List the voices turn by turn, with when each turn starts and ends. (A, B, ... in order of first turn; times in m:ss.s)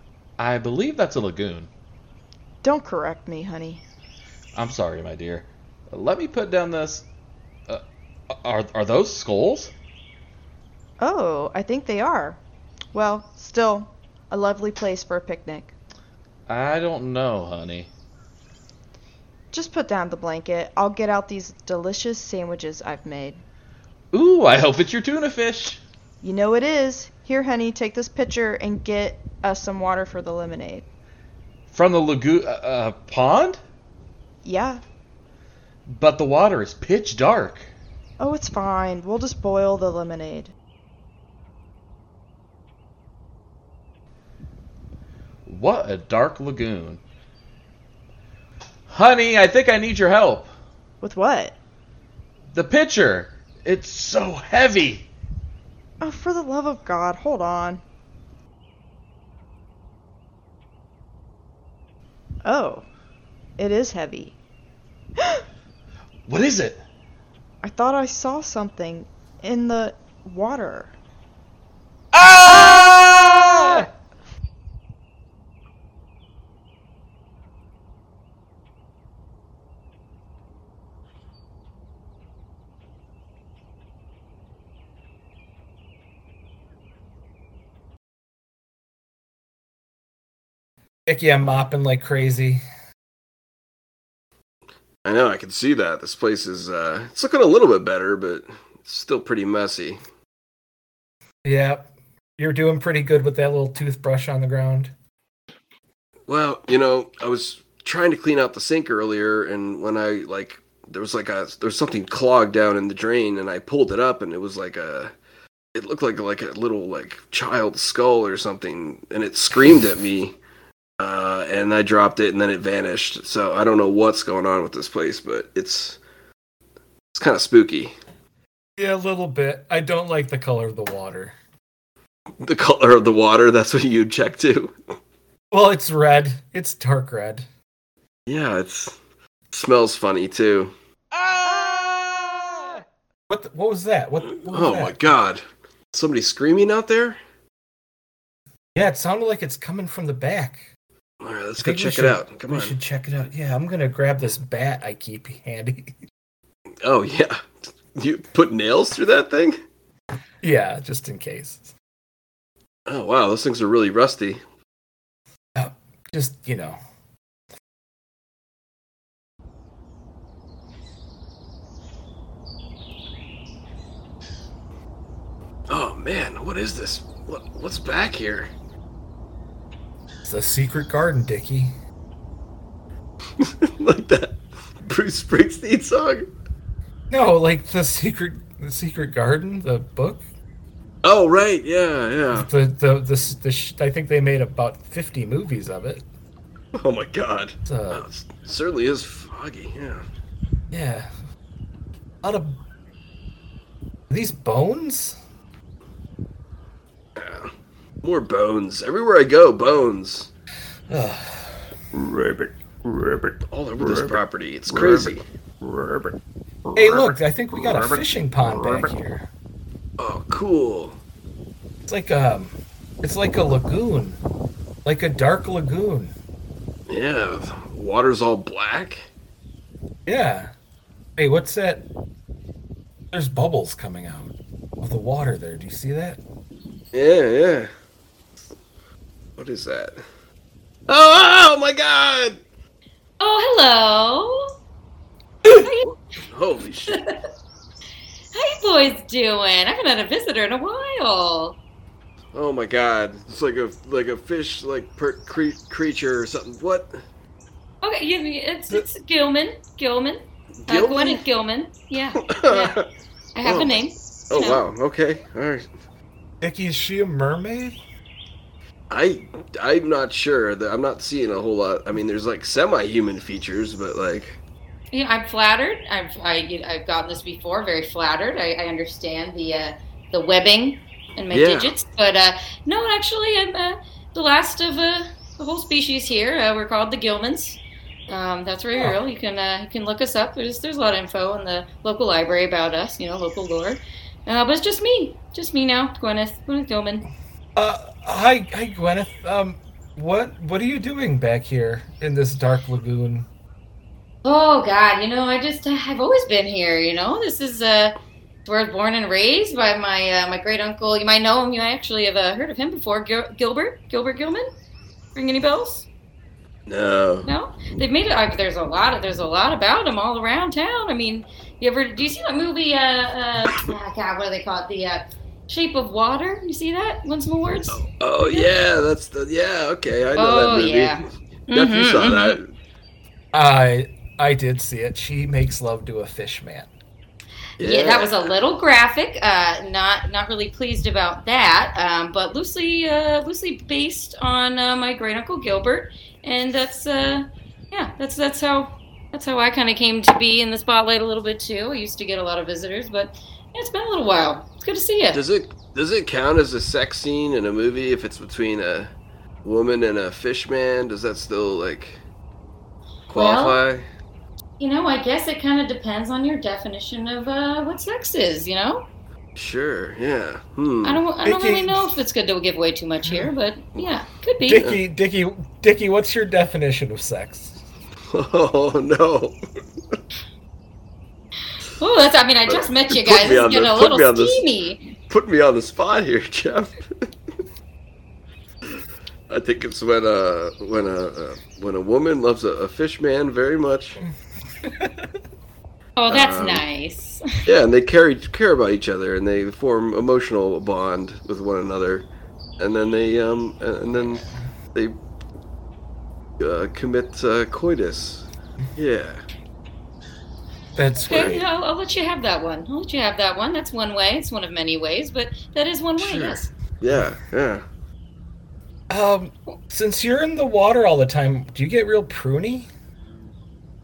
0:00.4-0:01.7 A
0:02.6-0:03.8 B
0:04.5-0:07.0 A
0:07.7-0:09.7 A
0:11.0-0:12.4 B
0:12.9-0:15.7 B
0:16.5-0:17.9 A
0:19.5-0:23.4 B
0:24.1-0:25.8 A
0:26.2-0:30.9 B
0:31.7-0:33.6 A
0:34.4-0:34.8 B
0:35.9-0:37.7 A
0:38.2-0:40.5 B
0:45.4-0:47.0 A
0:48.9-0:50.5 A
0:51.0-0:51.6 B
0:52.5-0:55.0 A
0:56.0-0:57.8 B
1:02.4-1:02.8 B
1:03.6-1:04.3 B
1:06.2-1:06.8 A
1:07.6-1:10.9 B
1:12.1-1:13.9 A
1:12.3-1:13.8 B
1:31.0-1:32.6 C
1:35.0-1:40.0 D
1:41.4-1:44.9 C
1:46.3-1:55.1 D
1:55.7-2:00.4 D
2:01.0-2:06.0 D
2:07.1-2:07.9 D
2:08.8-2:11.3 C
2:12.4-2:14.7 D
2:15.5-2:17.5 C
2:18.3-2:19.0 D
2:19.5-2:20.7 D
2:21.1-2:22.8 A
2:23.3-2:25.0 C
2:24.5-2:27.2 D
2:28.7-2:30.6 C
2:31.2-2:32.7 D
2:31.6-2:36.0 C
2:36.8-2:39.6 D
2:40.4-2:41.7 C
2:42.9-2:44.4 D
2:45.6-2:46.8 C
2:55.7-2:58.5 D
3:00.2-3:01.7 C
3:03.4-3:06.3 D
3:07.1-3:10.2 C
3:11.0-3:12.5 D
3:12.3-3:16.0 C
3:16.7-3:20.0 D
3:17.6-3:18.0 C
3:20.7-3:21.1 C
3:22.2-3:22.6 C
3:24.1-3:25.2 C
3:27.2-3:27.5 D
3:28.0-3:30.3 D
3:30.9-3:31.6 C
3:31.9-3:36.2 E
3:33.5-3:35.2 D
3:36.7-3:38.9 E
3:36.8-3:39.3 C
3:40.0-3:41.0 D
3:41.8-3:44.2 C
3:44.8-3:46.1 C
3:46.9-3:49.0 D
3:50.0-3:50.5 C
3:51.2-3:51.8 C
3:53.1-3:56.2 C
3:56.9-3:57.7 D
3:59.4-4:00.0 D
4:00.9-4:02.4 D
4:03.2-4:04.4 F
4:05.5-4:07.0 D
4:05.5-4:05.9 F
4:08.3-4:11.6 F
4:12.3-4:17.0 D
4:17.8-4:22.8 F
4:20.6-4:21.2 D
4:22.3-4:22.8 D
4:23.3-4:24.6 F
4:23.4-4:23.8 D
4:24.3-4:25.7 D
4:26.4-4:27.8 C
4:28.9-4:34.4 D
4:34.9-4:57.0 F
4:41.3-4:41.7 D
4:57.6-5:03.3 C
5:04.2-5:14.5 F
5:15.1-5:15.9 F
5:16.7-5:17.3 D
5:17.2-5:28.5 F
5:27.7-5:32.5 D
5:30.2-5:32.4 F
5:33.3-5:36.7 C
5:37.6-5:38.3 D
5:37.6-5:55.2 F
5:55.1-5:58.9 D
5:59.4-6:02.0 D
6:03.1-6:03.9 D
6:03.1-6:03.6 F
6:04.6-6:08.8 F
6:09.4-6:11.0 D
6:10.8-6:14.7 F
6:11.2-6:11.8 C
6:13.0-6:13.3 C
6:14.5-6:17.6 C
6:14.5-6:14.8 D
6:18.1-6:19.4 D
6:21.8-6:24.8 F
6:22.5-6:24.4 D
6:25.1-6:26.8 D
6:29.3-6:34.0 D
6:34.6-6:35.0 C
6:36.0-6:37.2 F
6:36.1-6:36.6 D
6:37.4-6:42.1 D
6:42.6-6:44.2 D
6:46.4-6:49.2 D
6:50.7-6:51.4 C
6:51.0-6:56.5 F
6:51.1-6:51.4 D
6:56.0-6:57.6 D
6:58.9-7:02.7 C